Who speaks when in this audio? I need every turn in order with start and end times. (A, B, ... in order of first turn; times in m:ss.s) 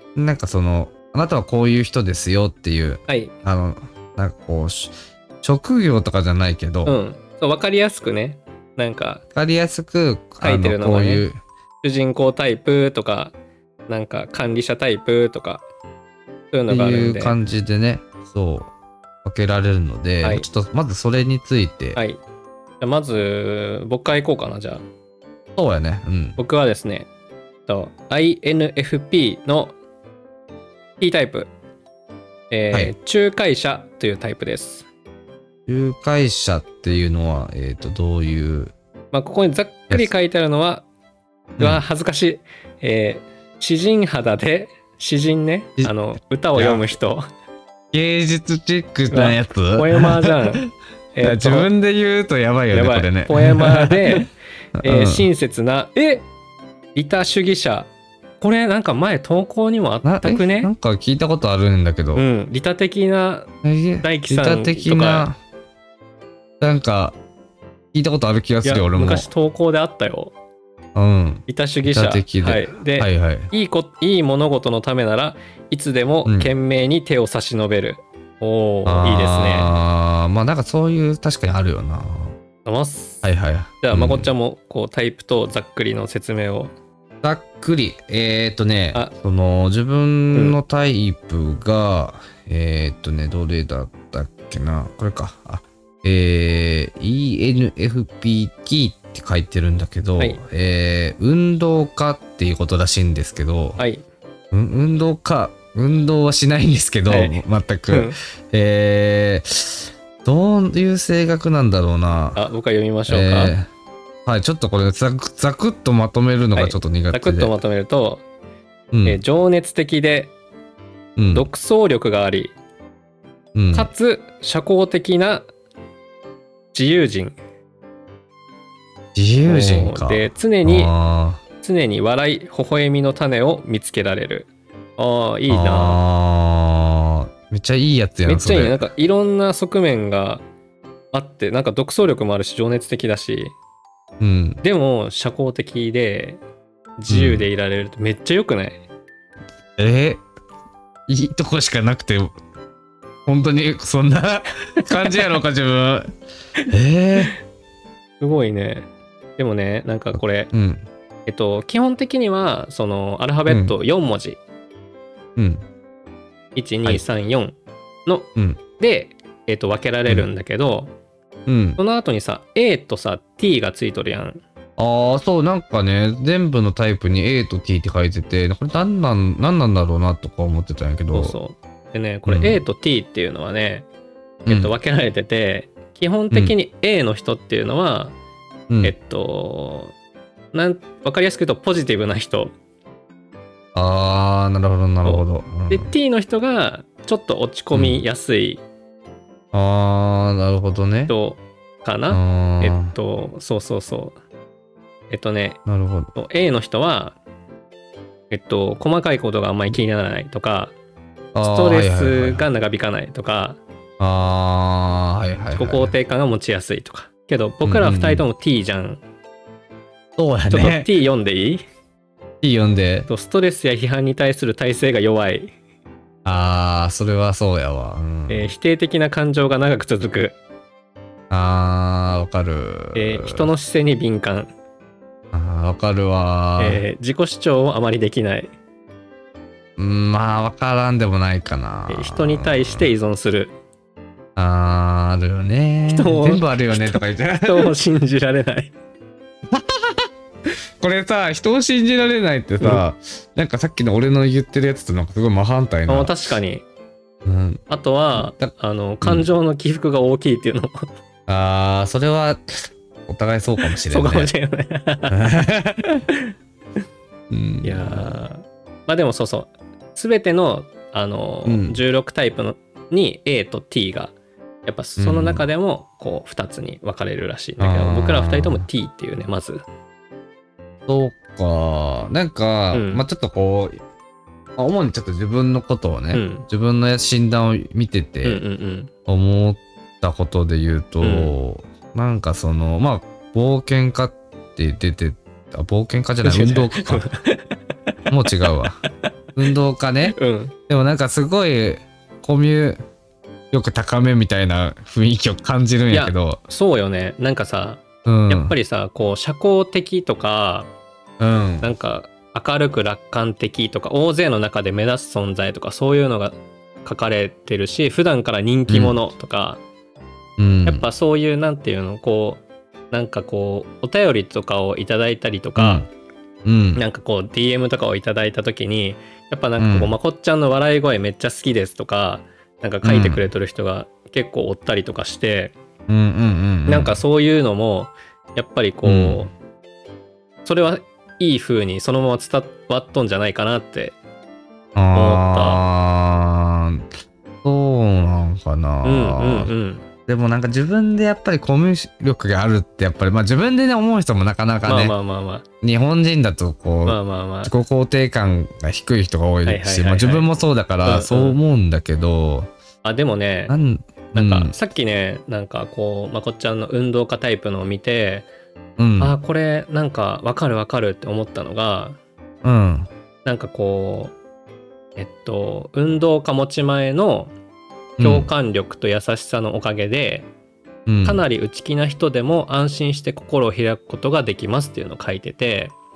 0:00.2-0:07.0 A
0:06.8-0:09.2 B
0:09.4-0:11.4 A
0:10.4-0:11.2 B
0:11.8-0:13.3 B
0:13.9-0:15.6 B
0:16.5-0:17.4 B
0:16.7-0:18.7 A
0:19.2-0:22.0 A
0:21.9-0:22.2 B
0:22.8-0:24.8 B
0:25.6-0:26.4 A
0:26.4-0:27.1 B
0:27.7-0:29.7 B
0:31.0-0:31.5 B
0:32.5-0:34.9 B
0:35.7-0:38.7 A
0:39.1-0:40.8 B
0:41.6-0:41.8 A
0:41.6-0:47.2 B
0:46.6-0:47.0 A
0:47.9-0:50.7 A
0:49.1-0:51.7 B
0:51.2-0:54.3 A
0:52.7-0:54.3 B
0:54.8-0:55.3 A
0:54.8-0:56.2 B
0:56.9-0:57.9 B
0:58.4-1:00.7 B
1:00.0-1:02.2 A
1:02.1-1:03.5 B
1:03.6-1:05.4 A
1:04.0-1:05.3 B
1:06.6-1:07.2 A
1:07.9-1:09.3 A
1:08.6-1:10.3 B
1:10.9-1:13.5 A
1:11.5-1:19.8 B
1:16.2-1:16.5 A
1:18.9-1:22.4 A
1:22.6-1:23.3 B
1:23.2-1:24.3 A
1:23.8-1:26.7 B
1:27.2-1:43.8 A
1:43.8-1:44.0 B
1:44.5-1:52.4 A
1:47.1-1:48.2 B
1:52.4-1:53.5 B
1:53.1-1:53.7 A
1:54.2-1:57.5 A
1:56.5-1:58.2 B
1:58.9-1:59.2 A
1:59.0-2:00.3 B
2:01.2-2:01.5 A
2:01.3-2:02.5 B
2:03.5-2:03.9 A
2:03.7-2:05.5 B
2:06.7-2:07.4 B
2:09.1-2:11.4 A
2:09.4-2:10.9 B
2:11.6-2:16.0 B
2:15.5-2:18.8 A
2:18.2-2:20.4 B
2:21.1-2:23.5 B
2:24.2-2:24.6 A
2:24.6-2:26.4 B
2:27.0-2:28.8 B
2:27.1-2:27.5 A
2:29.8-2:30.2 A
2:31.1-2:32.3 A
2:33.2-2:36.1 A
2:34.8-2:35.2 B
2:36.7-2:37.3 A
2:38.2-2:38.9 B
2:39.4-2:40.5 B
2:40.1-2:40.8 A
2:41.2-2:44.4 B
2:43.5-2:43.8 A
2:45.4-2:45.6 A
2:46.6-2:50.9 B
2:51.5-2:51.8 A
2:51.8-2:54.4 B
2:54.8-3:01.4 A
3:01.1-3:03.9 B
3:02.3-3:02.6 A
3:04.4-3:04.7 A
3:04.4-3:08.1 B
3:08.8-3:09.9 B
3:10.5-3:12.5 B
3:13.8-3:15.9 A
3:15.0-3:18.6 B
3:17.7-3:18.0 A
3:19.5-3:21.1 A
3:21.1-3:24.1 B
3:22.1-3:22.9 A
3:25.1-3:25.6 B
3:25.6-3:26.1 A
3:26.1-3:27.2 B
3:28.3-3:30.7 B
3:31.4-3:32.4 A
3:31.4-3:33.6 B
3:34.0-3:35.9 A
3:35.5-3:39.0 B
3:37.6-3:38.2 A
3:40.2-3:40.9 A
3:40.5-3:41.6 B
3:42.4-3:43.1 A
3:43.1-3:45.5 B
3:46.2-3:48.5 A
3:48.3-3:50.4 B
3:51.3-3:53.5 A
3:52.9-3:54.5 B
3:55.3-3:56.8 A
3:56.6-3:58.5 B
3:59.8-4:02.9 A
4:01.9-4:03.5 B
4:04.4-4:07.7 A
4:05.9-4:08.7 B
4:09.5-4:10.1 A
4:10.8-4:16.1 A
4:15.9-4:16.6 B
4:17.2-4:17.6 A
4:17.7-4:20.9 B
4:18.2-4:18.5 A
4:19.0-4:19.3 A
4:21.3-4:24.3 A
4:23.6-4:25.2 B
4:25.1-4:26.1 A
4:27.3-4:28.2 A
4:27.6-4:34.1 B
4:31.4-4:31.8 A
4:34.6-4:39.6 B
4:35.0-4:35.4 A
4:37.6-4:38.6 A
4:40.9-4:43.8 A
4:42.7-4:43.0 B
4:44.6-4:48.4 A
4:46.1-4:46.4 B
4:48.2-4:48.9 B
4:49.1-4:57.1 A
4:51.0-4:51.3 B
4:56.2-4:57.6 B
4:58.1-4:58.8 A
4:59.4-5:00.2 A
5:00.1-5:00.5 B
5:00.7-5:02.8 A
5:03.5-5:06.4 A
5:05.9-5:10.7 B
5:08.0-5:08.6 A
5:11.2-5:11.7 A
5:11.6-5:19.6 B
5:18.7-5:19.0 A
5:20.4-5:20.8 A
5:20.6-5:25.8 B
5:25.6-5:25.9 A
5:26.4-5:26.8 A
5:26.8-5:35.5 B
5:29.6-5:29.9 A
5:32.8-5:33.3 A
5:35.9-5:37.0 A
5:36.7-5:39.3 B
5:38.8-5:39.2 A
5:40.4-5:43.9 B
5:44.8-5:46.9 A
5:44.9-5:45.6 B
5:47.4-5:49.5 A
5:48.8-5:49.8 B
5:50.1-5:54.9 A
5:54.6-5:55.4 B
5:55.6-6:02.5 A
5:56.9-5:57.5 B
5:59.4-6:00.3 B
6:00.8-6:01.4 B
6:02.8-6:03.6 B
6:03.5-6:04.5 A
6:04.1-6:08.2 B
6:08.8-6:09.1 A
6:09.0-6:12.0 B
6:12.4-6:12.9 A
6:13.2-6:14.1 B
6:15.0-6:17.3 B
6:18.0-6:18.3 A
6:18.0-6:20.3 B
6:20.9-6:21.2 A
6:21.0-6:25.7 B